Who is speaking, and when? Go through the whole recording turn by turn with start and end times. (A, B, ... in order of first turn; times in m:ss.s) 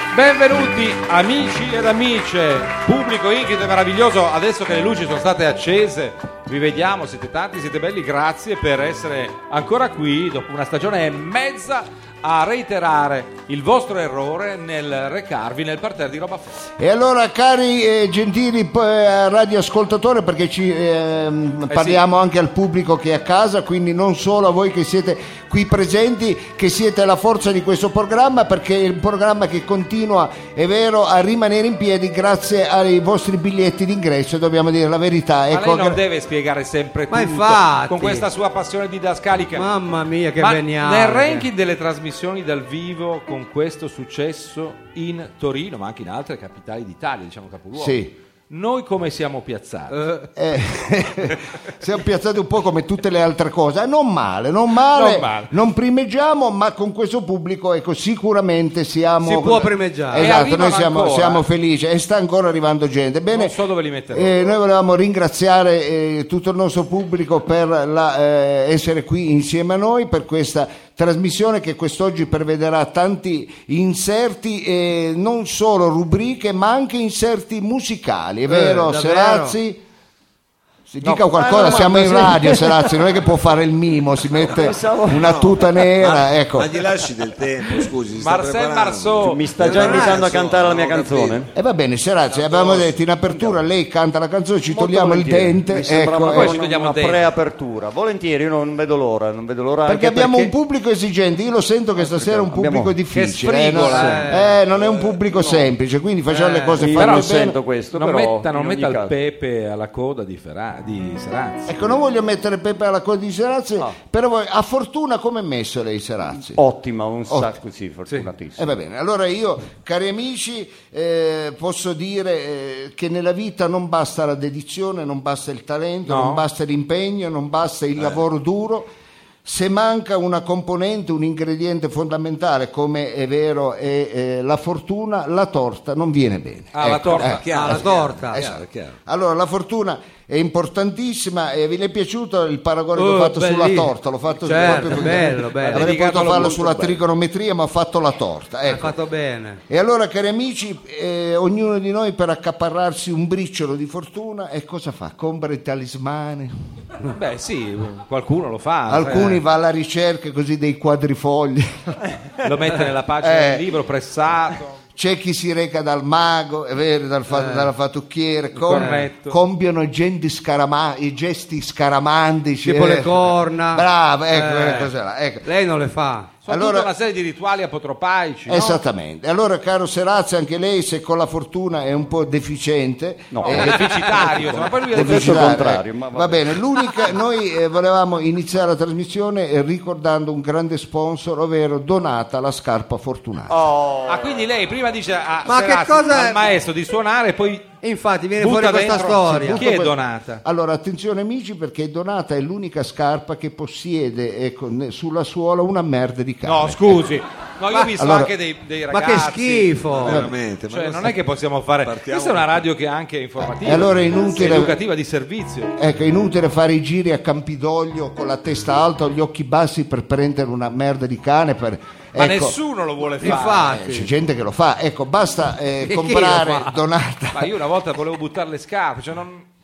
0:00.1-0:16.6 A
0:16.8-0:36.0 B
0:21.7-0:22.0 A
0:35.5-0:39.7 A
0:37.1-0:38.3 C
0:39.5-0:41.5 C
0:40.4-0:50.0 A
0:47.7-0:48.1 B
0:49.9-0:50.3 C
0:50.4-1:03.6 B
0:54.9-0:55.5 A
0:59.2-1:00.3 C
1:00.1-1:01.4 A
1:03.3-1:04.3 A
1:04.1-1:19.8 B
1:18.5-1:19.6 C
1:20.9-1:26.8 B
1:21.0-1:21.8 A
1:21.3-1:23.0 D
1:24.4-1:25.4 D
1:25.1-1:31.5 E
1:28.2-1:30.2 A
1:29.2-1:31.5 D
1:31.5-1:36.6 B
1:32.3-1:33.0 E
1:33.3-1:33.6 D
1:34.7-1:40.5 D
1:36.3-1:37.2 A
1:39.8-1:47.6 B
1:42.0-1:43.0 D
1:43.1-1:44.5 A
1:43.9-1:44.5 C
1:44.7-1:45.6 D
1:46.3-1:46.8 C
1:46.7-1:49.1 D
1:46.9-1:47.4 A
1:47.9-1:51.7 A
1:51.7-1:56.6 B
1:56.5-1:58.8 D
1:58.6-2:08.9 B
2:06.0-2:06.4 A
2:09.4-2:29.0 B
2:16.7-2:17.4 A
2:17.0-2:19.0 E
2:17.5-2:18.4 C
2:23.0-2:25.9 C
2:24.6-2:27.0 A
2:28.7-2:29.6 C
2:29.7-2:36.5 B
2:37.1-2:39.4 A
2:38.9-2:42.0 B
2:42.4-2:44.7 A
2:43.2-2:43.8 B
2:44.9-2:55.5 B
2:47.3-2:47.7 C
2:48.5-2:49.4 A
2:48.7-2:49.0 C
2:52.6-2:54.9 C
2:55.4-2:56.3 C
2:56.4-2:58.8 A
2:56.5-2:56.9 B
2:58.5-3:13.6 B
3:03.3-3:06.6 D
3:03.4-3:05.6 A
3:13.5-3:14.4 D
3:14.1-3:17.7 A
3:15.4-3:16.5 C
3:17.8-3:19.7 C
3:18.4-3:20.4 A
3:19.2-3:27.1 B
3:26.4-3:35.7 A
3:28.0-3:28.3 B
3:28.9-3:30.2 C
3:29.9-3:31.2 E
3:30.0-3:30.3 B
3:31.8-3:32.6 E
3:33.4-3:34.8 B
3:35.8-3:42.6 B
3:42.1-3:43.8 A
3:43.1-3:44.1 C
3:43.2-3:47.5 B
3:45.8-3:46.8 C
3:47.3-3:49.5 A